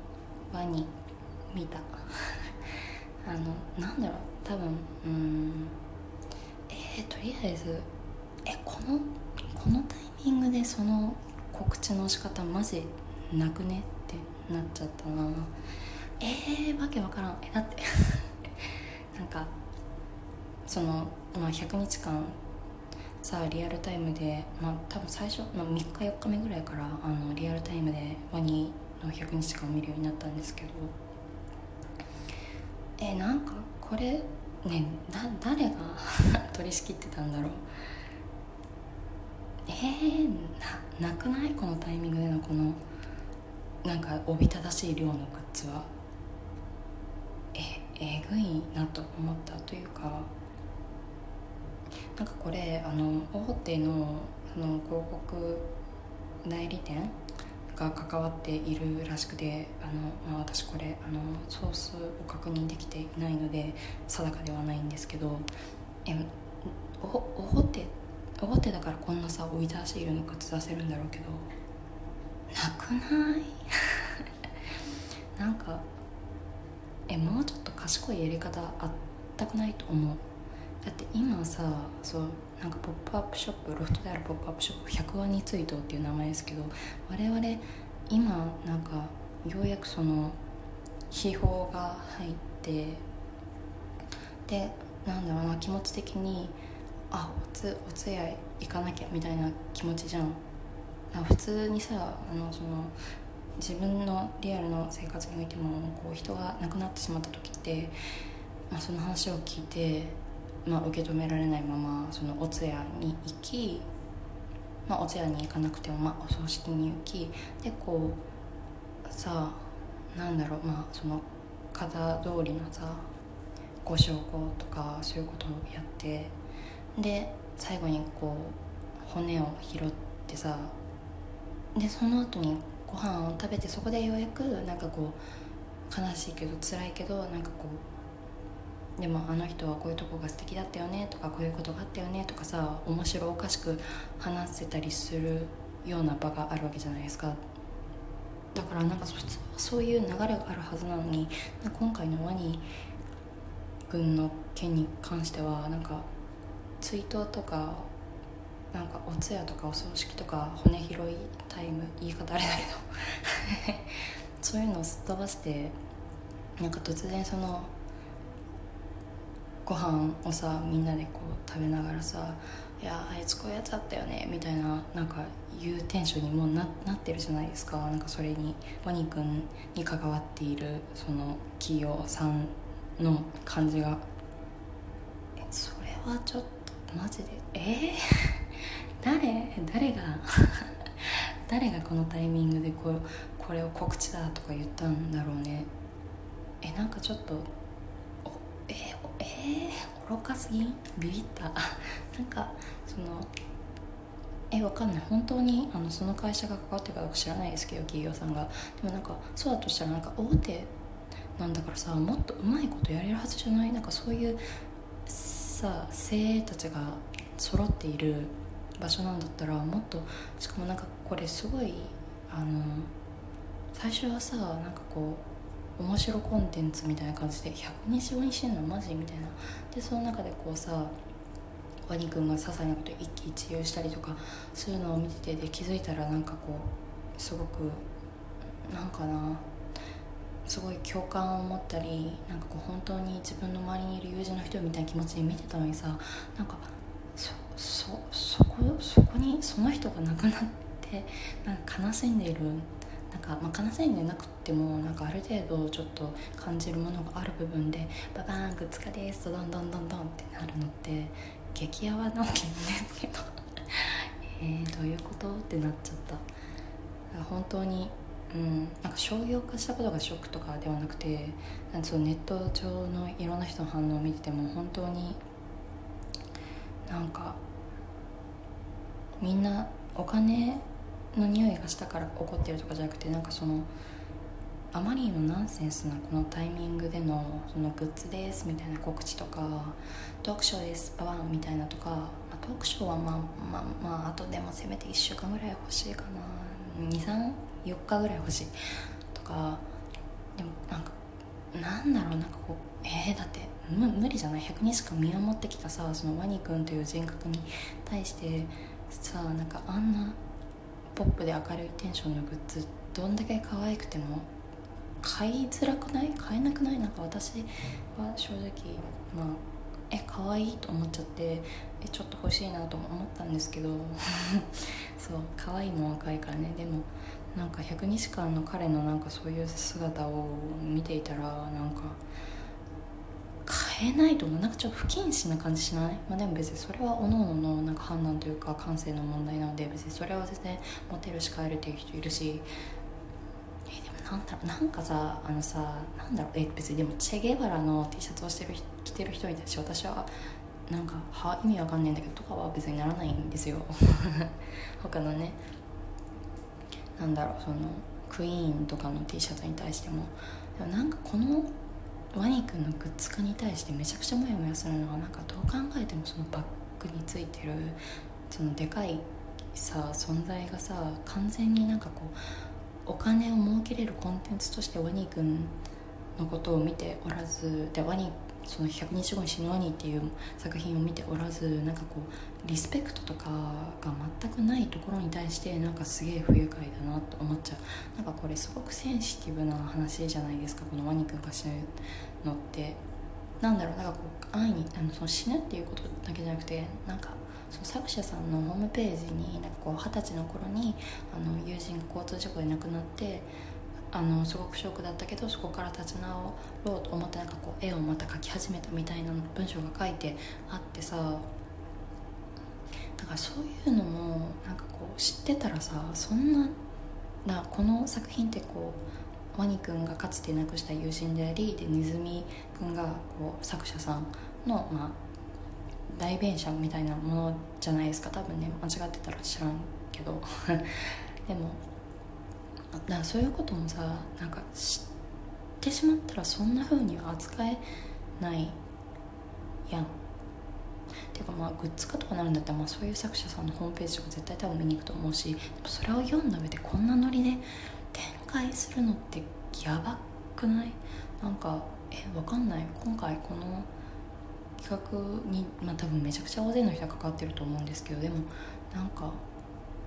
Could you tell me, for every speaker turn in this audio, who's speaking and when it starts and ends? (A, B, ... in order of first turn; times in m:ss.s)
0:00.5-0:00.9 A
0:01.5-0:02.5 A
0:03.2-0:05.8 A
0:06.7-0:07.9 A
0:08.4-0:15.5 A
0:16.2-0:19.6 A
0:20.7-0:22.4 A
0:23.2-0:31.0 A
0:33.0-0:37.6 A
0:39.7-0:42.8 A
0:43.8-0:45.9 A
0:47.5-0:50.3 A
0:52.2-0:55.7 A
0:56.4-0:57.2 A
0:57.7-1:05.5 A
1:06.0-1:11.5 A
1:12.5-1:14.3 A
1:15.3-1:15.9 A
1:17.1-1:20.2 A
1:20.8-1:30.4 A
1:31.1-1:33.0 A
1:34.5-1:36.6 A
1:37.1-1:40.4 A
1:41.1-1:43.0 A
1:43.6-1:48.0 A
1:48.7-1:53.9 A
1:54.9-1:58.2 A
1:59.0-2:03.1 A
2:03.8-2:06.4 A
2:07.0-2:10.8 A
2:11.7-2:15.2 A
2:15.9-2:17.9 A
2:19.0-2:27.4 A
2:28.5-2:32.7 A
2:33.9-2:36.1 A
2:36.8-2:37.9 A
2:38.7-2:45.8 A
2:46.6-2:47.7 A
2:49.6-3:04.1 A
3:05.4-3:15.7 A
3:16.6-3:17.5 A
3:18.2-3:23.3 A
3:24.5-3:30.7 A
3:31.4-3:34.4 A
3:35.0-3:42.9 A
3:43.7-3:51.0 A
3:51.9-3:57.9 A
3:58.7-3:59.5 A
4:00.4-4:26.3 A
4:27.1-4:35.2 A
4:36.9-4:37.4 A
4:39.2-4:43.7 A
4:44.7-4:58.6 A
4:59.1-4:59.7 A
5:00.4-5:01.0 A
5:01.5-5:10.2 A
5:10.9-5:14.3 A
5:15.0-5:32.0 A
5:33.4-5:42.5 A
5:43.7-5:50.1 A
5:50.7-5:55.4 A
5:57.0-6:01.6 A
6:02.1-6:12.2 A
6:12.8-6:15.6 A
6:16.2-6:32.8 A
6:33.4-6:43.3 A
6:43.9-6:51.3 A
6:53.0-6:56.6 A
6:57.2-7:05.0 A
7:05.9-7:11.6 A
7:12.8-7:14.9 A
7:15.6-7:17.6 A
7:18.2-7:18.6 A
7:19.7-7:19.9 A
7:21.1-7:33.7 A
7:34.6-7:39.2 A